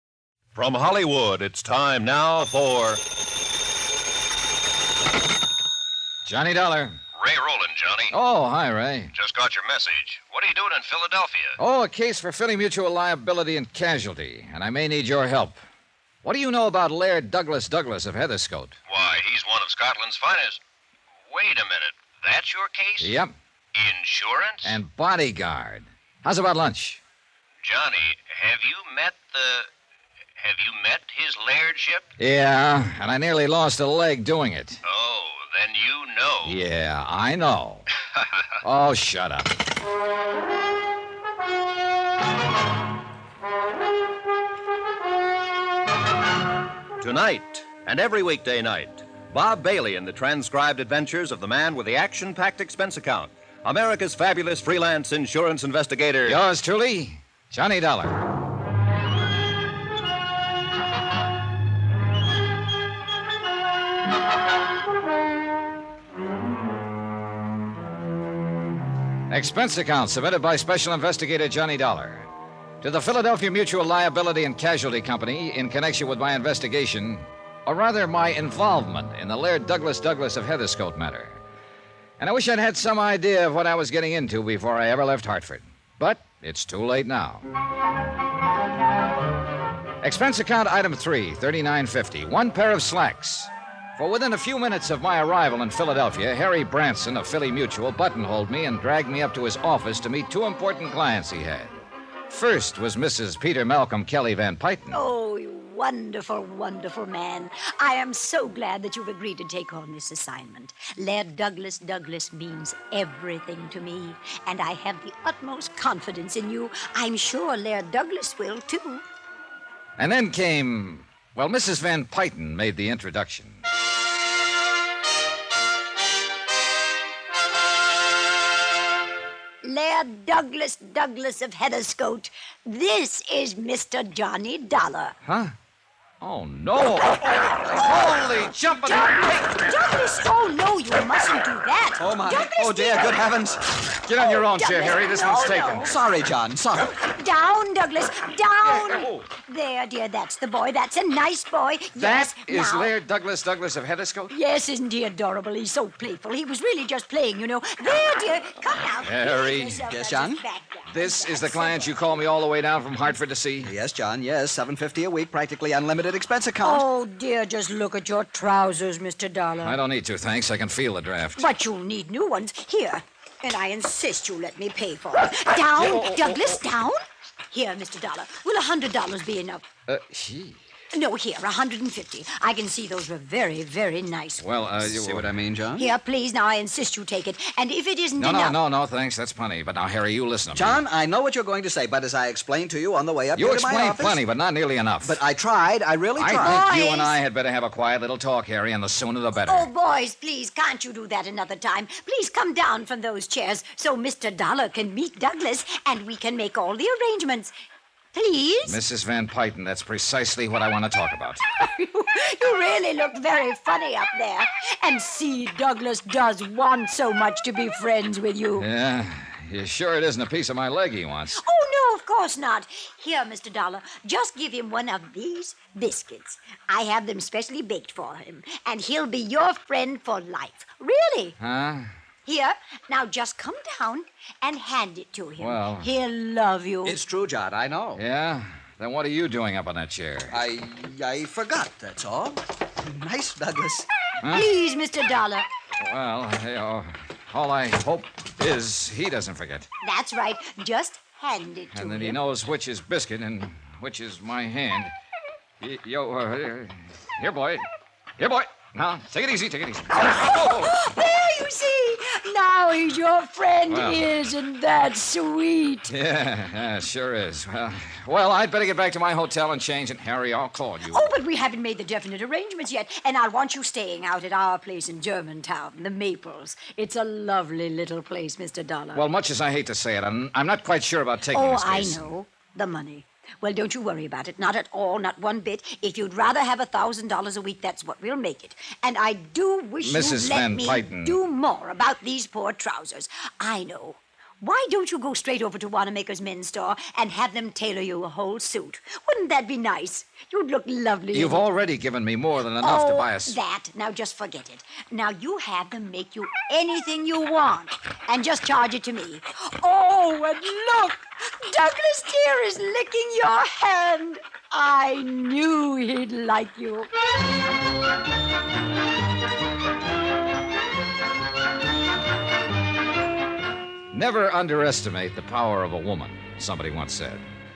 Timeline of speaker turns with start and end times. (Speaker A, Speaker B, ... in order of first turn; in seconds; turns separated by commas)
Speaker A: 0.5-3.0, Speaker B: 6.2-7.0, Speaker A: 7.2-8.1, Speaker B: 8.1-9.1, Speaker A: 9.1-11.6, Speaker B: 11.6-15.6, Speaker B: 16.2-18.8, Speaker A: 18.9-20.6, Speaker A: 21.3-23.2, Speaker B: 23.0-23.3, Speaker A: 23.7-24.8, Speaker B: 24.6-27.0, Speaker A: 27.6-29.7, Speaker A: 30.4-32.1, Speaker B: 32.2-34.8, Speaker A: 34.8-36.6, Speaker B: 36.4-37.9, Speaker B: 38.6-39.5, Speaker A: 47.0-56.4, Speaker B: 56.2-58.2, Speaker B: 69.3-72.3, Speaker B: 72.8-81.4, Speaker B: 82.2-87.5, Speaker B: 90.0-105.0, Speaker C: 104.9-119.0, Speaker B: 120.0-123.6, Speaker C: 129.6-135.1, Speaker B: 135.2-135.5, Speaker B: 136.2-139.3, Speaker C: 138.7-143.3, Speaker D: 142.0-143.6, Speaker B: 144.0-145.9, Speaker C: 144.2-145.9, Speaker D: 145.8-146.9, Speaker C: 147.0-152.9, Speaker B: 148.6-149.3, Speaker B: 151.9-154.3, Speaker C: 154.3-162.2, Speaker B: 159.0-159.8, Speaker D: 159.9-160.4, Speaker B: 160.9-163.7, Speaker D: 163.6-166.8, Speaker C: 166.6-169.8, Speaker B: 169.6-171.5, Speaker C: 171.3-179.6, Speaker B: 175.8-176.6, Speaker B: 179.9-180.6, Speaker C: 180.9-184.4, Speaker B: 184.4-185.4, Speaker D: 184.8-185.9, Speaker C: 185.8-188.6, Speaker B: 188.2-190.8, Speaker D: 190.5-194.2, Speaker B: 193.3-195.2, Speaker D: 195.0-196.5, Speaker B: 196.2-199.7, Speaker C: 196.4-197.2, Speaker C: 199.3-207.5, Speaker C: 208.1-208.8, Speaker B: 208.6-211.4, Speaker C: 211.6-218.7, Speaker B: 218.6-221.4, Speaker C: 221.3-231.4, Speaker B: 231.4-231.9, Speaker C: 232.2-237.0, Speaker B: 235.4-235.9, Speaker D: 236.8-238.0, Speaker B: 237.9-240.4, Speaker D: 240.3-243.9, Speaker B: 244.2-244.5, Speaker C: 244.2-245.5, Speaker B: 245.8-249.7, Speaker C: 249.8-252.2, Speaker B: 251.7-254.9, Speaker B: 255.6-257.6, Speaker B: 258.2-260.7, Speaker C: 259.9-265.9, Speaker B: 263.7-264.1, Speaker B: 265.9-271.1, Speaker C: 270.9-279.1, Speaker B: 278.9-282.1, Speaker C: 281.3-301.4, Speaker B: 289.8-291.2, Speaker B: 301.1-303.4, Speaker C: 302.6-316.9, Speaker B: 323.9-327.3